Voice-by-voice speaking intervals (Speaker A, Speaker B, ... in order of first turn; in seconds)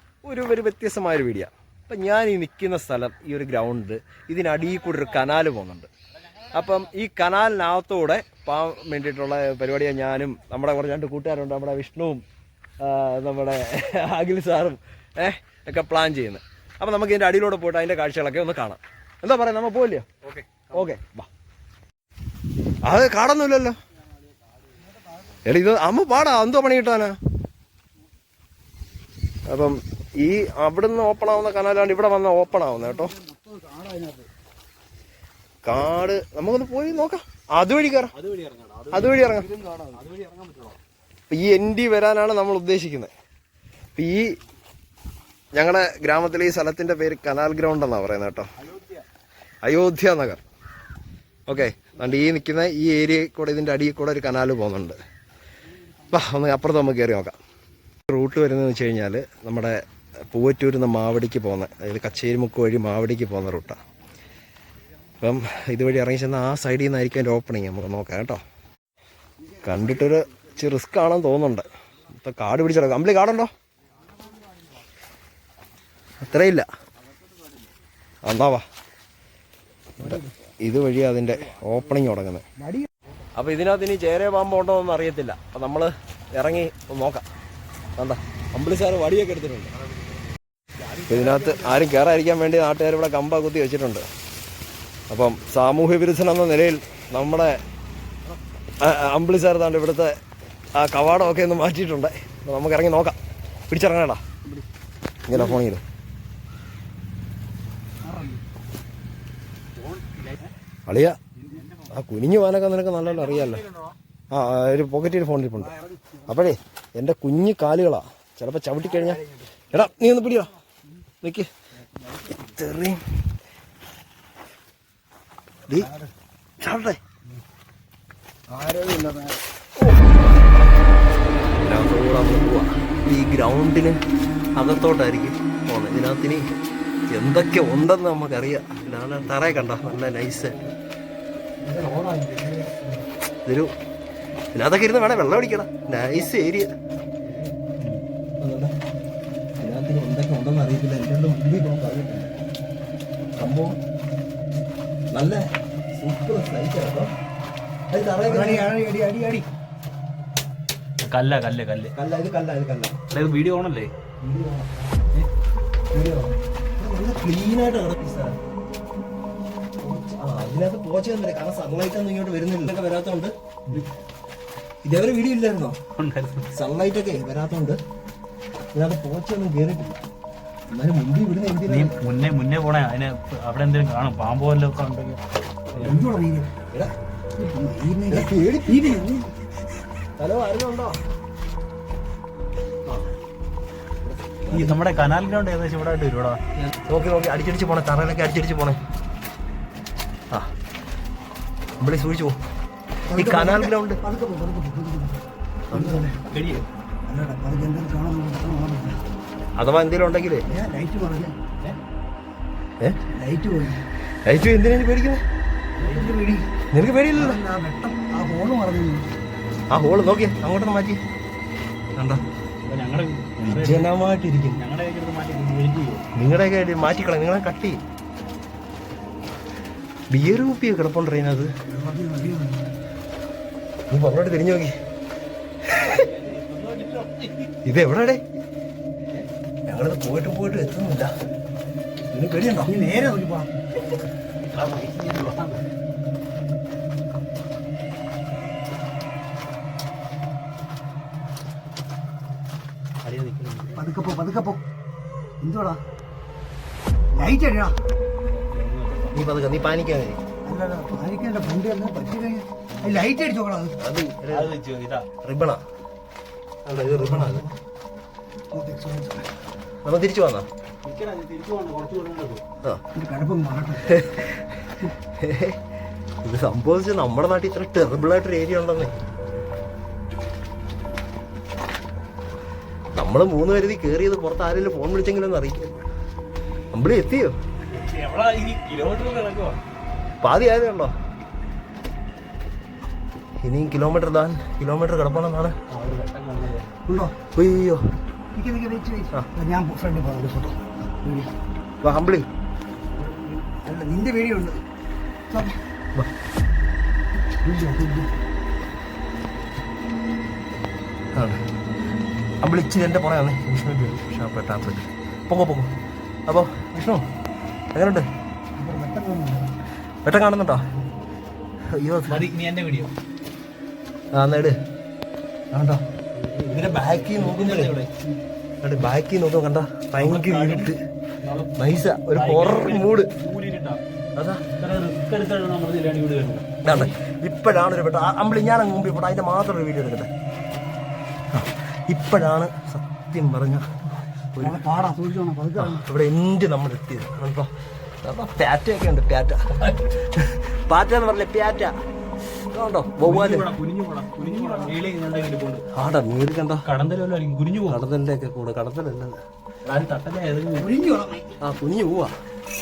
Speaker A: 0.2-5.9, 6.5-12.2, 12.8-20.1, 20.7-21.3, 22.8-23.8, 25.4-27.2, 29.5-33.1, 35.6-38.1, 38.9-39.5, 41.3-43.1, 44.0-44.4, 45.5-48.5, 49.6-50.4, 51.5-55.0, 56.1-57.4, 58.1-63.8, 65.2-68.4, 69.6-73.5, 76.2-76.7, 78.2-78.6, 80.0-82.4, 83.3-87.2, 88.0-89.7, 91.1-94.0, 95.1-97.6, 98.8-100.2, 100.8-103.2, 103.7-104.2, 105.3-105.8, 110.9-111.2, 111.8-113.7, 114.3-120.5, 121.2-121.5, 122.2-123.0, 126.6-127.0, 129.8-130.2, 131.6-134.0, 134.6-136.5, 137.1-140.7, 143.4-143.7, 144.5-146.7, 148.4-148.7, 149.6-152.3, 153.3-153.8, 155.1-157.1, 157.9-158.7, 161.9-163.0, 164.2-164.9, 165.9-168.4, 169.8-173.8, 174.8-175.8, 176.5-177.8, 178.7-180.0, 180.7-181.9, 185.7-186.0, 188.1-189.1, 190.2-191.0, 194.0-194.8, 196.9-198.8, 201.8-202.4, 203.1-204.0, 205.7-206.2, 209.6-210.5, 214.2-215.2, 216.7-217.4, 219.7-221.0, 221.9-222.2, 223.4-224.6, 226.1-227.8, 230.1-231.5, 233.9-234.7, 235.7-236.0, 237.6-238.2, 239.7-241.1, 242.0-242.7, 259.1-260.2, 263.8-264.5, 265.2-265.6, 266.6-267.5, 269.8-270.5, 273.9-275.6, 276.2-278.9, 282.9-285.9, 286.7-287.4, 290.2-290.9, 293.4-295.6, 297.3-297.9, 301.8-302.2, 311.1-311.4, 312.4-315.7, 316.3-317.0, 317.7-318.1, 320.0-320.6, 321.7-322.2, 324.1-324.6, 325.5-325.8, 326.5-327.8, 328.6-330.8, 331.6-333.1, 334.1-334.4, 336.6-340.1, 341.3-343.7, 344.3-344.6, 345.6-351.7, 352.5-353.5, 355.7-356.6, 357.6-359.2, 361.4-362.1
Speaker B: 20.2-20.8, 38.1-39.2, 39.9-40.8, 109.9-110.3, 161.0-161.9, 163.1-163.9, 176.0-176.5, 181.7-185.2, 194.5-196.4, 206.2-206.6, 215.8-216.2, 222.6-223.9, 224.5-226.0, 235.7-237.5, 244.4-245.6, 253.0-253.9, 258.3-259.1, 262.7-263.0, 264.3-265.1, 270.8-272.4, 287.7-289.6, 295.7-296.7, 322.1-322.9, 326.1-327.9, 330.0-331.5, 332.1-333.8, 334.6-336.9, 353.0-355.6, 356.6-357.8, 359.6-360.7
Speaker C: 33.0-34.3, 39.4-40.0, 80.0-80.3, 82.6-82.9, 91.2-91.5, 108.0-108.4, 115.7-116.2, 125.8-126.1, 128.5-129.4, 141.6-142.8, 158.2-159.5, 185.8-186.5, 187.4-189.3, 203.1-205.2, 205.7-206.1, 207.1-209.0, 210.5-211.4, 213.1-213.8, 215.8-216.5, 217.1-219.1, 231.7-232.7, 242.7-243.5, 253.7-254.6, 255.4-255.8, 257.1-257.8, 260.4-263.7, 266.9-267.5, 268.5-269.3, 272.9-274.0, 296.9-297.1, 298.3-301.3, 303.4-304.6, 305.3-305.6, 307.4-308.1, 318.6-319.5, 344.4-345.8, 354.2-354.7, 360.6-361.4